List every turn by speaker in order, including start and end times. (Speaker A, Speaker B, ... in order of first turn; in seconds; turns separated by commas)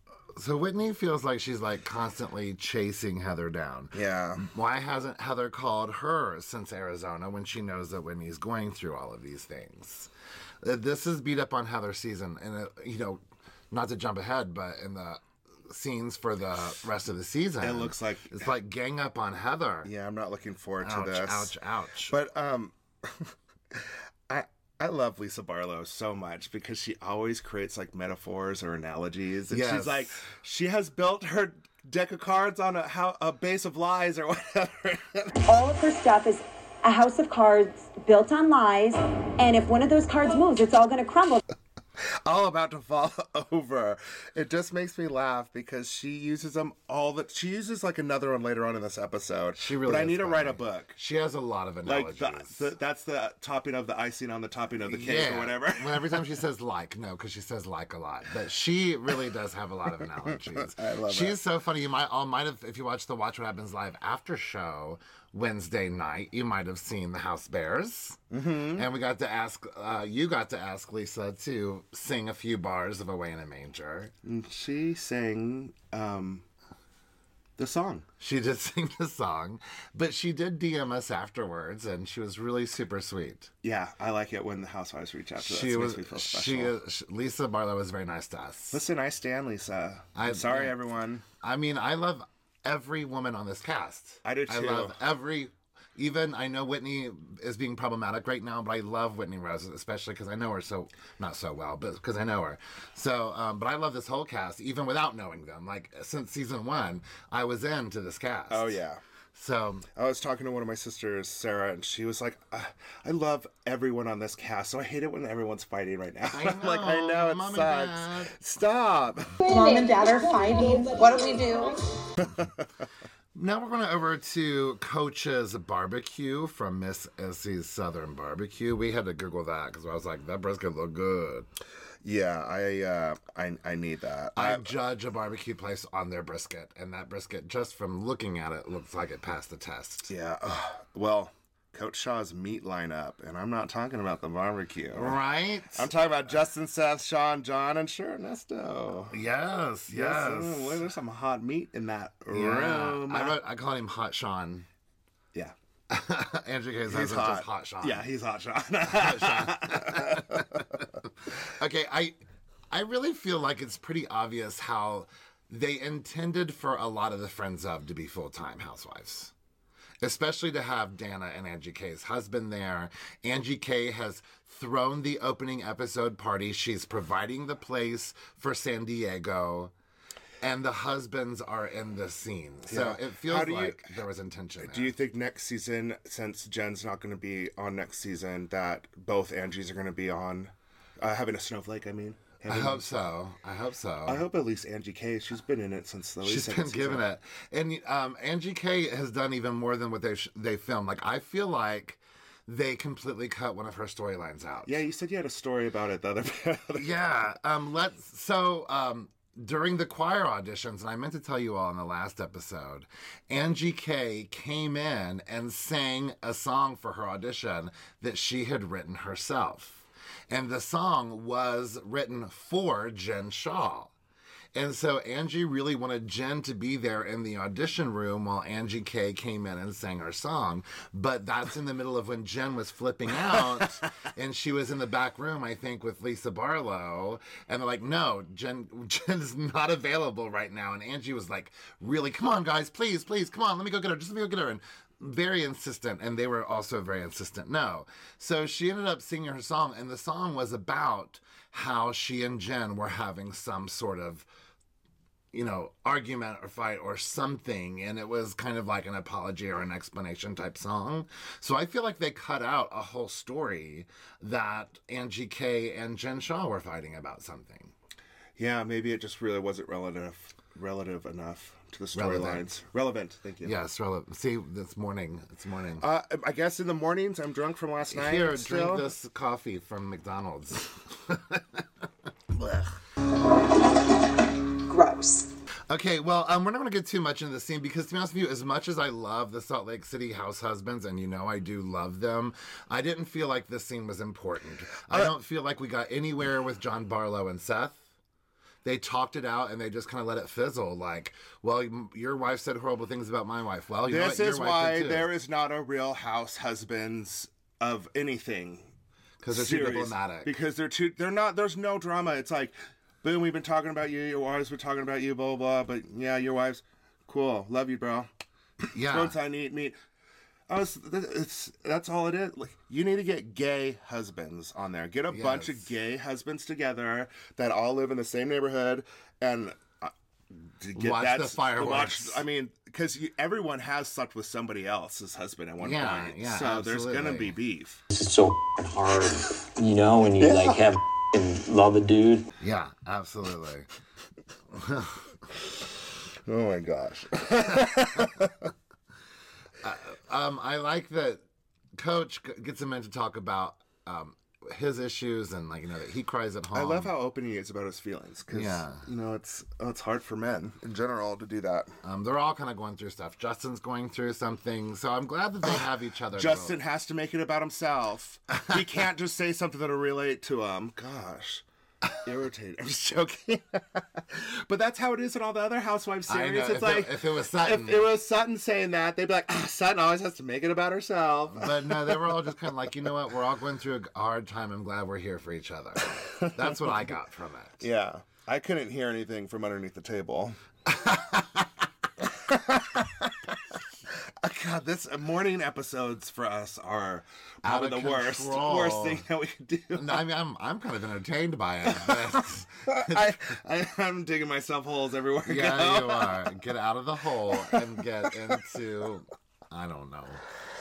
Speaker A: 0.4-10.1, Speaker B: 3.9-4.5, Speaker A: 10.6-19.9, Speaker B: 17.6-18.5, Speaker B: 19.9-21.5, Speaker A: 20.8-22.2, Speaker B: 22.1-35.4, Speaker A: 29.5-30.2, Speaker C: 35.5-41.4, Speaker B: 42.2-51.0, Speaker A: 49.6-52.7, Speaker B: 51.9-56.3, Speaker A: 54.9-74.1, Speaker B: 60.5-61.4, Speaker B: 68.3-68.9, Speaker B: 74.2-76.5, Speaker B: 77.6-78.1, Speaker A: 78.2-83.5, Speaker B: 83.6-86.8, Speaker A: 85.4-88.8, Speaker B: 88.7-91.2, Speaker A: 90.2-90.8, Speaker A: 91.4-108.8, Speaker B: 94.2-95.0, Speaker B: 108.5-109.0, Speaker A: 109.3-109.9, Speaker B: 110.0-119.4, Speaker A: 116.3-118.3, Speaker D: 119.5-121.8, Speaker C: 119.5-121.4, Speaker B: 122.2-122.6, Speaker A: 123.3-131.5, Speaker B: 132.0-134.7, Speaker A: 134.3-140.1, Speaker B: 140.1-145.2, Speaker A: 144.9-145.9, Speaker B: 145.7-149.2, Speaker A: 149.1-150.8, Speaker B: 149.9-153.4, Speaker A: 152.3-154.7, Speaker A: 155.9-158.1, Speaker B: 156.9-160.6, Speaker A: 158.9-162.2, Speaker A: 162.7-169.3, Speaker A: 170.0-179.7, Speaker A: 180.4-184.9, Speaker B: 182.7-184.0, Speaker B: 184.6-193.1, Speaker A: 192.5-194.3, Speaker B: 194.1-197.0, Speaker A: 196.2-204.8, Speaker B: 204.7-206.9, Speaker A: 206.8-223.9, Speaker A: 224.5-254.3, Speaker A: 255.3-267.7, Speaker B: 268.4-273.6, Speaker A: 271.9-272.5, Speaker A: 273.4-275.9, Speaker B: 275.8-278.9, Speaker A: 277.9-281.7, Speaker A: 282.3-282.7, Speaker D: 284.7-285.3, Speaker A: 285.7-297.8, Speaker A: 298.6-305.1, Speaker B: 303.9-308.7, Speaker A: 309.2-310.3, Speaker B: 309.3-318.1, Speaker A: 318.7-319.2, Speaker B: 318.8-319.8, Speaker B: 320.5-329.9, Speaker A: 325.1-325.7, Speaker B: 330.6-337.8, Speaker A: 330.8-332.2, Speaker A: 335.6-337.4, Speaker E: 337.9-342.3, Speaker A: 342.4-343.7, Speaker A: 344.5-345.1, Speaker B: 346.3-348.5, Speaker A: 349.6-351.2, Speaker A: 351.8-356.9, Speaker B: 356.5-361.7, Speaker A: 358.3-358.9, Speaker A: 361.8-366.6, Speaker B: 366.1-371.4, Speaker A: 368.3-368.6, Speaker B: 372.0-382.0, Speaker A: 376.1-377.9, Speaker A: 381.3-387.7, Speaker B: 386.1-386.7, Speaker B: 387.6-390.4, Speaker A: 390.7-391.6, Speaker B: 392.0-393.1, Speaker B: 393.9-400.0, Speaker A: 397.4-399.0, Speaker A: 399.7-403.2, Speaker B: 402.7-406.3, Speaker A: 405.3-410.2